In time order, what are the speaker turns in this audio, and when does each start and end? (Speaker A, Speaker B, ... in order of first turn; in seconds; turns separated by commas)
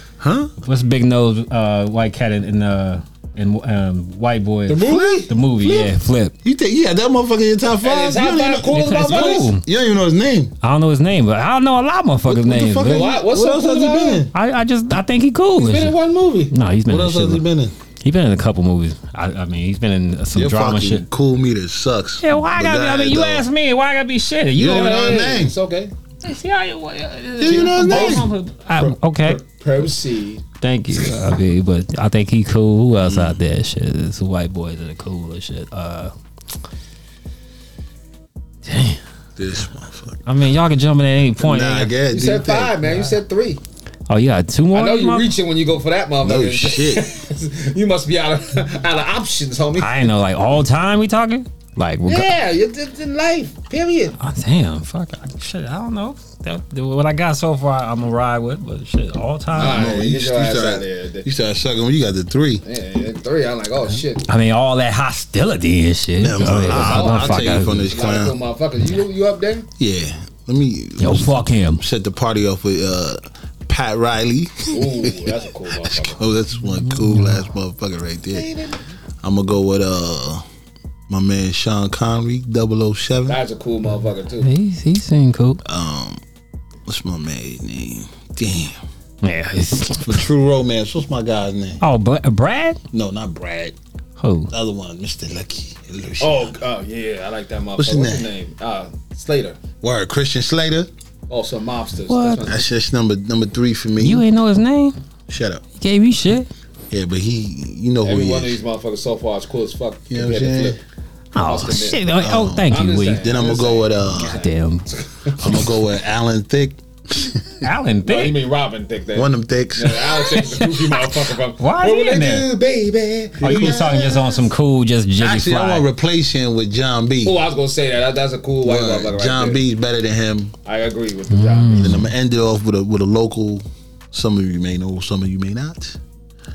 Speaker A: 0.2-0.5, Speaker B: 0.6-6.3, Speaker C: 4.7-5.3, Speaker A: 4.7-5.9, Speaker A: 6.4-10.5, Speaker C: 7.8-9.5, Speaker B: 8.6-9.7, Speaker B: 10.6-13.2, Speaker A: 12.3-14.3, Speaker C: 12.8-14.3, Speaker B: 14.3-15.9, Speaker C: 15.6-16.5, Speaker B: 16.5-17.4, Speaker A: 16.9-17.7, Speaker B: 18.0-21.0, Speaker A: 20.3-23.5, Speaker B: 22.2-25.3, Speaker A: 24.6-25.5, Speaker C: 24.6-25.9, Speaker B: 26.2-29.4, Speaker A: 27.4-28.3, Speaker C: 27.5-28.3, Speaker C: 28.8-30.4, Speaker B: 30.6-36.1, Speaker A: 33.0-33.4, Speaker B: 38.7-39.0, Speaker A: 39.4-40.2, Speaker B: 40.3-41.9, Speaker A: 41.4-42.8, Speaker C: 42.1-43.6, Speaker B: 42.9-43.1, Speaker B: 44.1-45.3, Speaker C: 44.7-50.1, Speaker A: 46.2-47.1, Speaker B: 49.8-52.3, Speaker C: 52.1-54.1, Speaker B: 54.2-59.8, Speaker C: 59.5-61.3, Speaker A: 59.5-62.6, Speaker C: 62.6-64.2, Speaker B: 64.2-67.9, Speaker A: 66.2-68.4, Speaker C: 66.5-69.7, Speaker A: 69.8-78.5, Speaker B: 71.0-71.8, Speaker C: 74.7-76.2, Speaker B: 76.9-77.4, Speaker C: 78.3-78.8, Speaker A: 79.2-80.4, Speaker A: 81.1-83.4, Speaker C: 83.3-84.5, Speaker B: 84.4-85.6, Speaker A: 85.6-86.2, Speaker A: 86.9-88.8, Speaker B: 89.2-90.2, Speaker A: 90.0-91.8, Speaker B: 91.8-92.8, Speaker A: 92.9-93.8, Speaker B: 94.2-94.5, Speaker A: 94.5-96.5, Speaker C: 96.2-99.6, Speaker A: 97.8-98.3, Speaker A: 99.8-100.9, Speaker C: 101.3-102.7, Speaker B: 102.1-102.5, Speaker A: 102.5-104.2, Speaker B: 104.0-105.0, Speaker A: 105.3-105.6, Speaker B: 105.8-106.5, Speaker A: 106.9-108.6, Speaker C: 108.0-110.8, Speaker A: 110.1-110.8, Speaker B: 111.3-113.2, Speaker C: 111.4-112.0, Speaker A: 112.2-114.4, Speaker C: 112.7-115.4, Speaker B: 114.1-114.9, Speaker A: 115.4-117.6, Speaker B: 117.6-118.4, Speaker C: 118.1-124.2, Speaker A: 119.2-120.1, Speaker B: 120.2-122.5, Speaker A: 123.4-124.0, Speaker B: 123.4-125.9, Speaker A: 125.2-127.4, Speaker C: 127.2-129.6, Speaker A: 128.6-130.5, Speaker C: 130.7-132.0, Speaker B: 131.3-132.1, Speaker A: 131.8-136.0